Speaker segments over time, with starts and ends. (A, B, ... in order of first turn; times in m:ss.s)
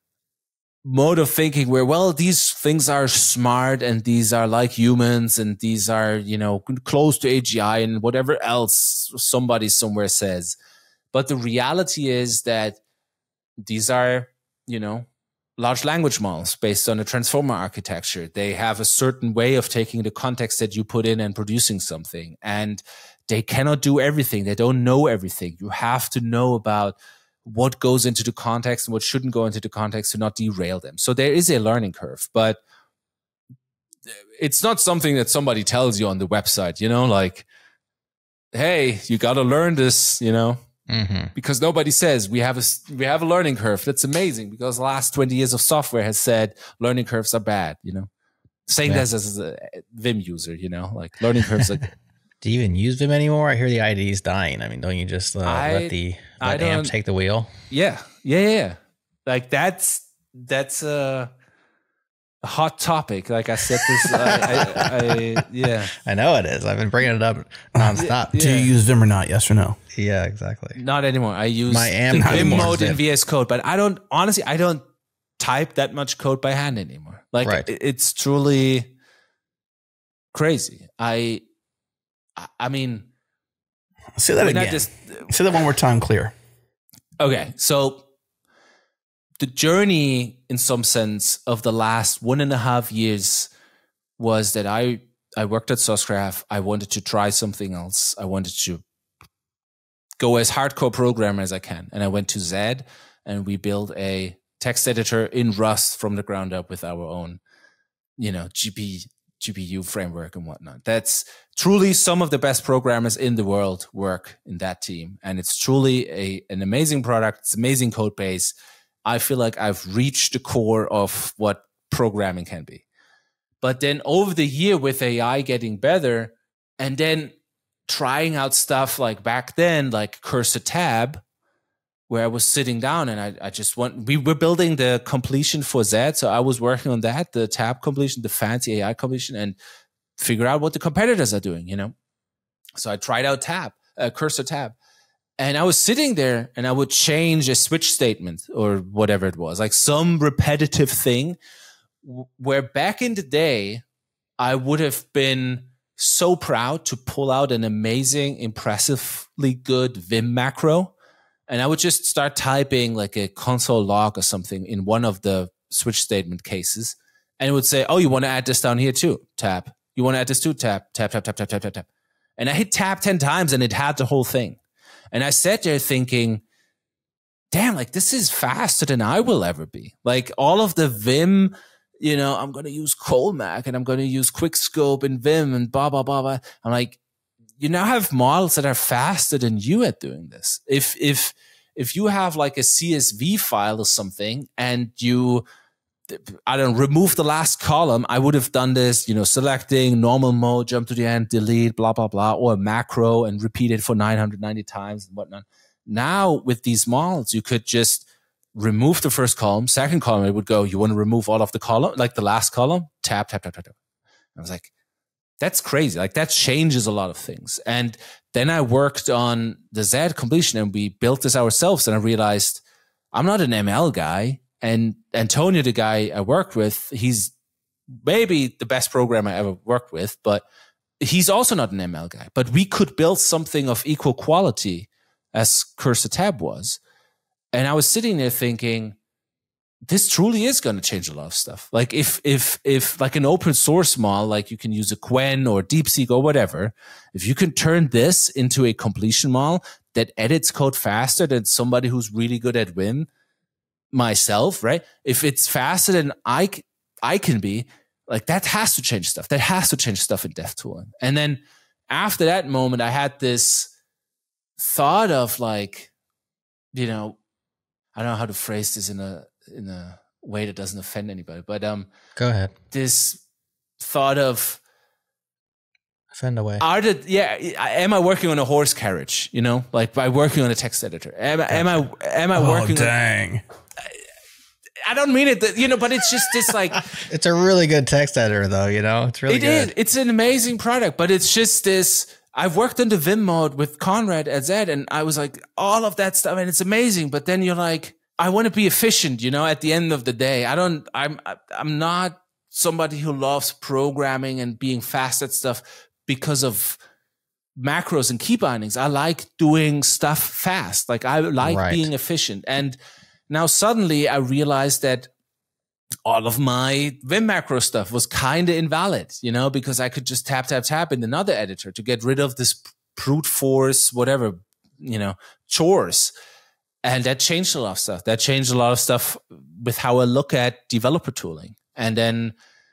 0:00.8-0:10.6 A
0:11.1-0:12.8 A
0:13.6-0:32.6 A
0:34.4-0:37.4 A
0:38.5-0:40.6 A
0:40.9-0:41.3 B
0:41.3-0:48.1 A
0:48.7-0:51.9 A
0:52.4-0:57.5 B
0:55.4-0:56.9 A
0:57.7-1:01.3 A
1:02.4-1:05.9 A
1:03.8-1:05.1 B
1:06.0-1:08.5 B
1:07.8-1:09.8 C
1:08.0-1:08.7 A
1:09.9-1:10.8 B
1:10.7-1:14.8 A
1:11.7-1:13.0 B
1:12.1-1:12.8 C
1:15.4-1:18.9 A
1:20.3-1:21.4 A
1:22.4-1:23.1 A
1:24.2-1:26.3 C
1:24.4-1:25.3 A
1:27.2-1:28.0 A
1:29.4-1:33.5 A
1:34.2-1:38.8 A
1:40.2-1:47.4 A
1:48.2-2:02.8 A
2:03.6-2:07.4 A
2:07.9-2:11.2 A
2:12.1-2:19.6 A
2:20.2-2:21.9 A
2:22.8-2:24.8 A
2:25.4-2:31.4 A
2:32.0-2:33.8 A
2:34.4-2:40.9 A
2:41.5-2:51.9 A
2:52.4-2:54.6 A
2:55.1-2:56.4 A
2:57.5-3:07.0 A
3:07.6-3:15.4 A
3:16.1-3:33.8 A
3:34.4-3:34.7 A
3:35.4-3:42.6 A
3:43.1-3:47.3 A
3:48.0-3:50.4 A
3:51.0-3:56.8 A
3:57.5-3:59.0 A
3:59.9-4:13.1 A
4:13.9-4:23.7 A
4:24.6-4:25.9 A
4:26.7-4:27.2 A
4:27.9-4:31.9 A
4:32.2-4:32.5 B
4:32.7-4:33.2 A
4:33.8-4:34.6 A
4:36.1-4:36.6 B
4:36.6-4:42.9 A
4:41.5-4:41.8 B
4:42.3-4:43.4 C
4:44.8-4:46.9 A
4:46.9-4:49.7 B
4:49.3-5:06.8 A
5:07.6-5:12.8 A
5:11.4-5:11.9 B
5:13.3-5:15.1 A
5:16.0-5:26.1 A
5:26.8-5:32.3 A